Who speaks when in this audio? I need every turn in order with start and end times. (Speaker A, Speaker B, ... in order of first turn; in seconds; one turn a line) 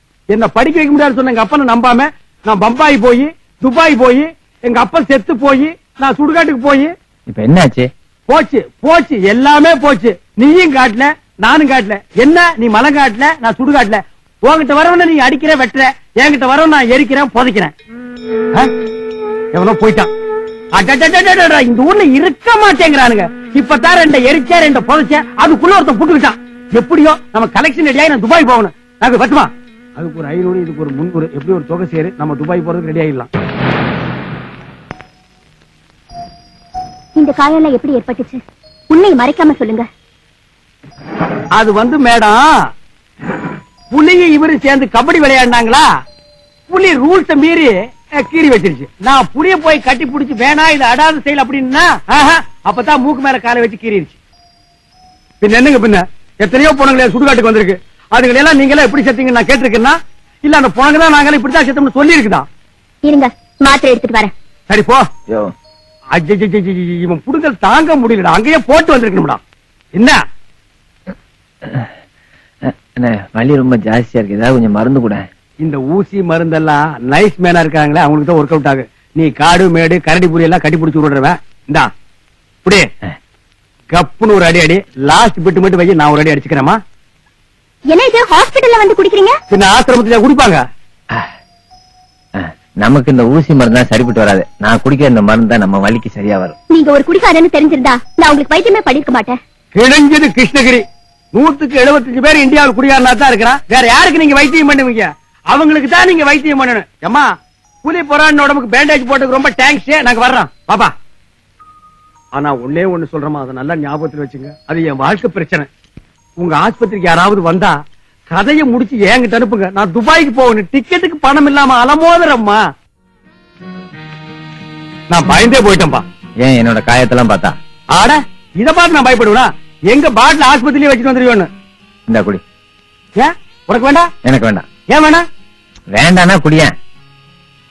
Speaker A: 0.3-6.9
Speaker B: 7.3-7.9
Speaker A: 8.3-17.7
Speaker A: 19.5-20.1
Speaker A: 20.8-33.3
Speaker C: 37.2-39.9
Speaker A: 41.6-42.4
Speaker A: 43.9-45.9
Speaker A: 46.7-54.2
Speaker A: 55.4-62.5
Speaker C: 63.0-64.3
Speaker A: 64.7-65.0
Speaker A: 66.1-69.4
Speaker B: 72.7-75.2
Speaker A: 75.6-81.9
Speaker A: 83.9-86.8
Speaker C: 87.9-89.4
Speaker A: 89.5-90.6
Speaker B: 92.4-96.6
Speaker C: 96.7-99.4
Speaker A: 99.8-107.3
Speaker A: 107.8-110.9
Speaker A: 112.3-115.7
Speaker A: 116.4-117.7
Speaker A: 118.3-122.6
Speaker A: 125.1-126.0
Speaker B: 126.4-127.5
Speaker A: 127.9-131.5
Speaker B: 132.1-132.4
Speaker A: 133.2-134.1
Speaker B: 134.2-134.7
Speaker A: 134.9-135.2
Speaker B: 135.9-136.7